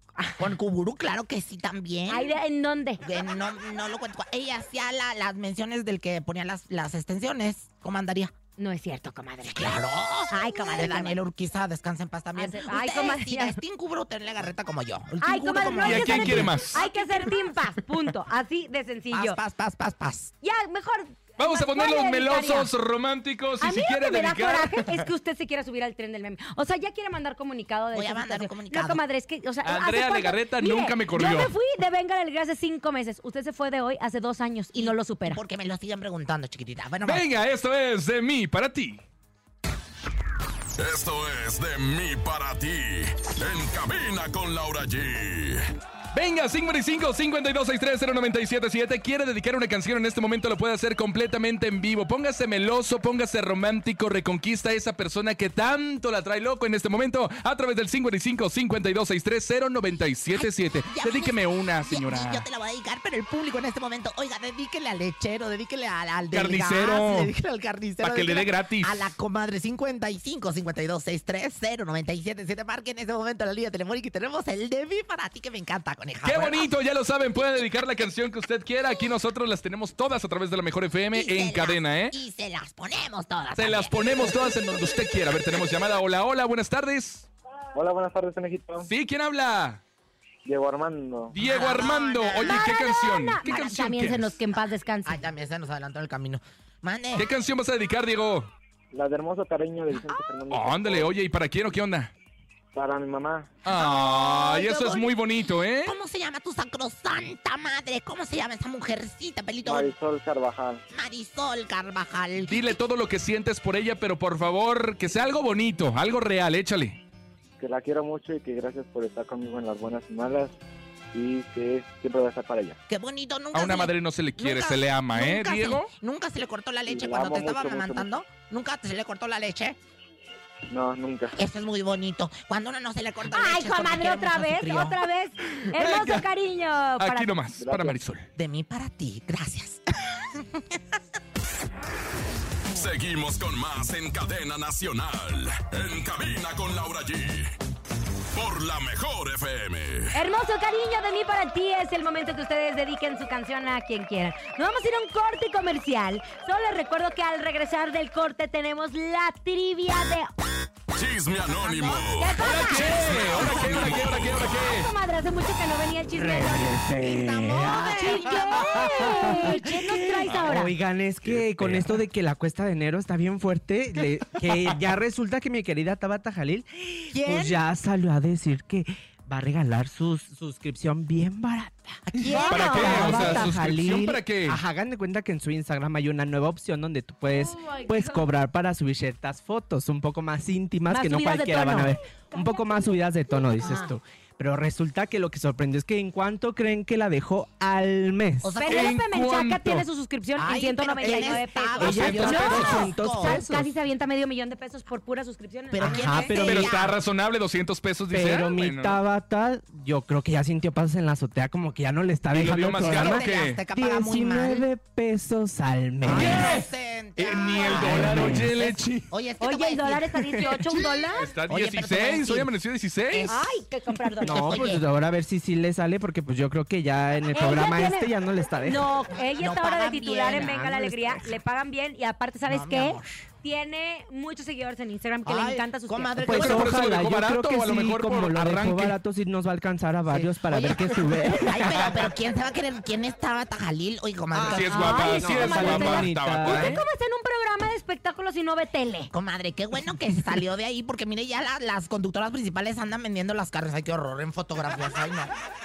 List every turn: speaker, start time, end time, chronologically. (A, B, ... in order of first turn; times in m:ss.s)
0:00.4-0:02.3 A
0:02.1-0:03.0 B
0:03.0-0:08.3 A
0:08.6-0:09.8 B
0:09.5-0:16.9 A
0:10.3-0:11.2 B
0:12.4-0:13.6 B
0:15.2-0:19.4 B
0:15.8-0:16.9 C
0:19.1-0:20.3 A
0:20.4-0:22.7 B
0:21.4-0:25.1 C
0:23.6-0:35.4 B
0:27.9-0:29.0 A
0:29.6-0:31.5 C
0:34.7-0:37.2 A
0:37.0-0:39.0 C
0:40.8-0:45.7 D
0:46.1-1:02.4 C
1:00.3-1:16.7 A
1:06.3-1:07.3 C
1:08.0-1:09.0 C
1:16.2-1:22.1 C
1:21.1-1:24.8 A
1:23.6-1:27.3 C
1:27.7-1:28.9 E
1:28.9-1:29.8 C
1:30.4-1:31.3 E
1:31.3-1:34.4 C
1:31.4-1:32.7 A
1:32.4-1:35.2 B
1:35.0-1:37.3 A
1:37.2-1:38.5 C
1:38.9-1:41.1 E
1:40.5-1:42.1 C
1:42.7-1:43.6 E
1:43.6-1:45.9 C
1:43.7-1:45.2 A
1:45.8-1:49.9 A
1:49.6-1:50.8 E
1:50.9-1:52.8 A
1:52.5-1:57.0 C
1:57.6-2:00.6 E
2:01.1-2:02.8 E
2:02.9-2:09.8 A
2:03.5-2:05.9 C
2:06.9-2:08.2 E
2:10.7-2:11.4 E
2:11.4-2:15.0 A
2:13.3-2:17.3 B
2:15.7-2:16.2 C
2:17.0-2:18.3 C
2:17.6-2:18.0 E
2:18.4-2:20.8 A
2:22.7-2:27.5 D
2:28.3-2:30.1 D
2:30.1-2:40.3 B
2:40.9-2:44.4 D
2:41.5-2:43.2 A
2:42.2-2:43.9 B
2:42.4-2:44.9 C
2:44.4-2:46.8 B
2:46.2-3:18.6 F
2:47.0-2:49.1 A
2:47.6-2:50.7 B
2:51.2-2:52.0 C
2:57.1-2:57.6 A
3:02.2-3:03.5 B
3:02.3-3:04.6 C
3:10.9-3:12.0 B
3:13.6-3:13.9 B
3:18.4-3:19.0 A
3:18.6-3:26.3 B
3:18.6-3:19.8 C
3:20.4-3:23.4 A
3:21.8-3:22.9 C
3:21.8-3:23.7 F
3:25.7-3:27.0 A
3:25.8-3:26.7 F
3:26.4-3:29.0 C
3:28.1-3:36.5 F
3:32.3-3:33.6 C
3:32.8-3:34.6 A
3:36.0-3:39.1 C
3:36.0-3:40.7 A
3:37.7-3:38.5 F
3:39.4-3:41.3 B
3:41.1-3:43.3 C
3:41.5-3:42.5 A
3:43.1-3:43.6 A
3:43.3-3:44.6 B
3:44.2-3:44.8 A
3:44.2-3:48.8 F
3:47.3-3:56.6 B
3:49.2-3:50.6 A
3:50.3-3:51.2 F
3:52.4-3:53.2 A
3:55.2-3:56.9 A
3:56.2-4:02.0 F
3:56.3-3:59.0 C
4:00.1-4:05.2 A
4:04.3-4:06.8 F
4:04.4-4:06.8 C
4:04.7-4:09.1 B
4:09.1-4:15.3 A